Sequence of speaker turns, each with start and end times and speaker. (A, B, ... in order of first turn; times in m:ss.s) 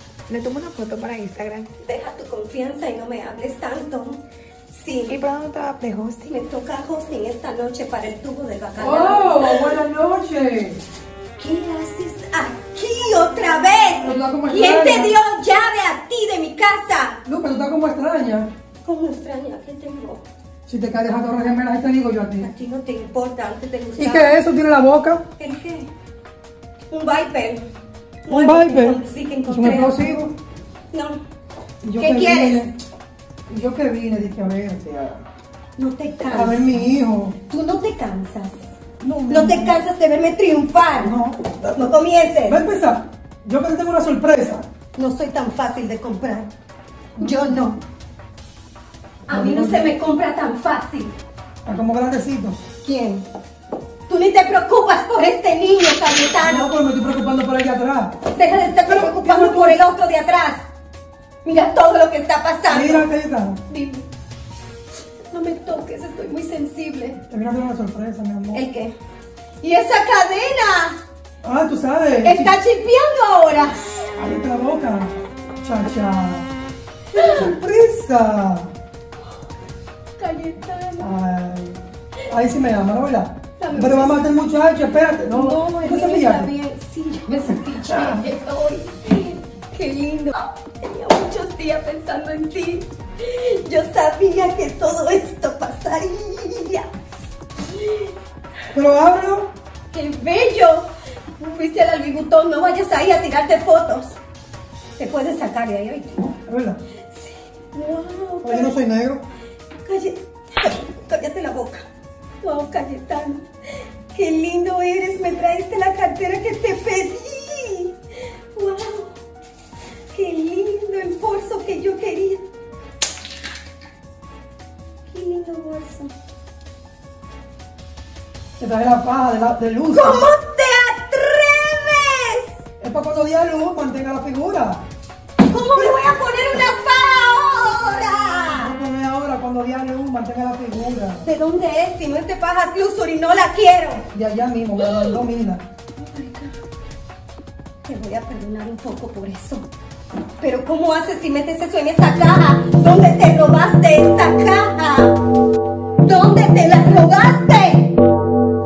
0:00.3-0:01.7 A
0:01.8-0:05.2 B
0:05.1-0:06.3 A
0:06.3-0:09.8 B
0:08.8-0:10.8 C
0:11.4-0:17.2 B
0:14.0-0:15.1 C
0:17.2-0:18.5 C
0:18.8-0:20.2 B
0:20.7-0:22.5 C
0:22.4-0:24.4 B
0:24.0-0:25.2 C
0:25.4-0:25.9 B
0:26.9-0:27.6 B
0:28.2-0:30.2 B
0:28.3-0:30.3 C
0:30.9-0:31.2 B
0:31.8-0:32.7 C
0:31.9-0:32.7 B
0:33.5-0:35.2 C
0:35.8-0:36.8 B
0:36.3-0:37.4 C
0:37.5-0:38.6 B
0:39.0-0:39.8 C
0:39.3-0:41.2 B
0:41.0-0:41.8 C
0:41.7-0:42.6 B
0:42.5-0:44.6 C
0:44.9-0:46.5 B
0:47.2-0:47.6 C
0:47.2-0:47.8 B
0:49.3-0:51.1 B
0:49.3-0:49.9 C
0:51.6-0:52.6 C
0:52.8-0:53.2 B
0:54.1-0:56.7 B
0:56.4-0:58.1 C
0:58.3-1:00.6 B
0:58.8-0:59.8 C
1:01.4-1:03.1 B
1:02.7-1:03.6 C
1:03.7-1:04.0 B
1:05.3-1:07.2 B
1:07.3-1:08.6 C
1:08.5-1:08.9 B
1:09.6-1:11.0 B
1:11.4-1:12.6 C
1:12.2-1:13.8 B
1:14.2-1:16.5 C
1:17.1-1:17.6 B
1:17.1-1:18.7 C
1:20.2-1:21.1 B
1:21.0-1:26.5 C
1:23.6-1:24.3 B
1:25.3-1:36.9 B
1:27.5-1:28.2 C
1:38.7-1:39.5 C
1:39.9-1:44.2 B
1:45.0-1:46.3 B
1:46.5-1:46.8 C
1:47.1-1:48.8 B
1:48.4-1:49.2 C
1:49.8-1:51.8 B
1:52.4-1:53.4 B
1:54.1-1:58.0 B
1:58.5-1:59.1 B
2:00.1-2:02.4 B
2:05.1-2:06.1 B
2:08.6-2:10.3 C
2:09.9-2:12.5 B
2:12.8-2:14.8 C
2:15.4-2:18.7 B
2:15.7-2:16.0 C
2:18.6-2:21.3 C
2:21.2-2:24.0 B
2:24.1-2:25.6 C
2:24.8-2:25.2 B
2:26.0-2:26.5 B
2:27.8-2:29.7 B
2:30.4-2:35.2 B
2:36.0-2:37.9 B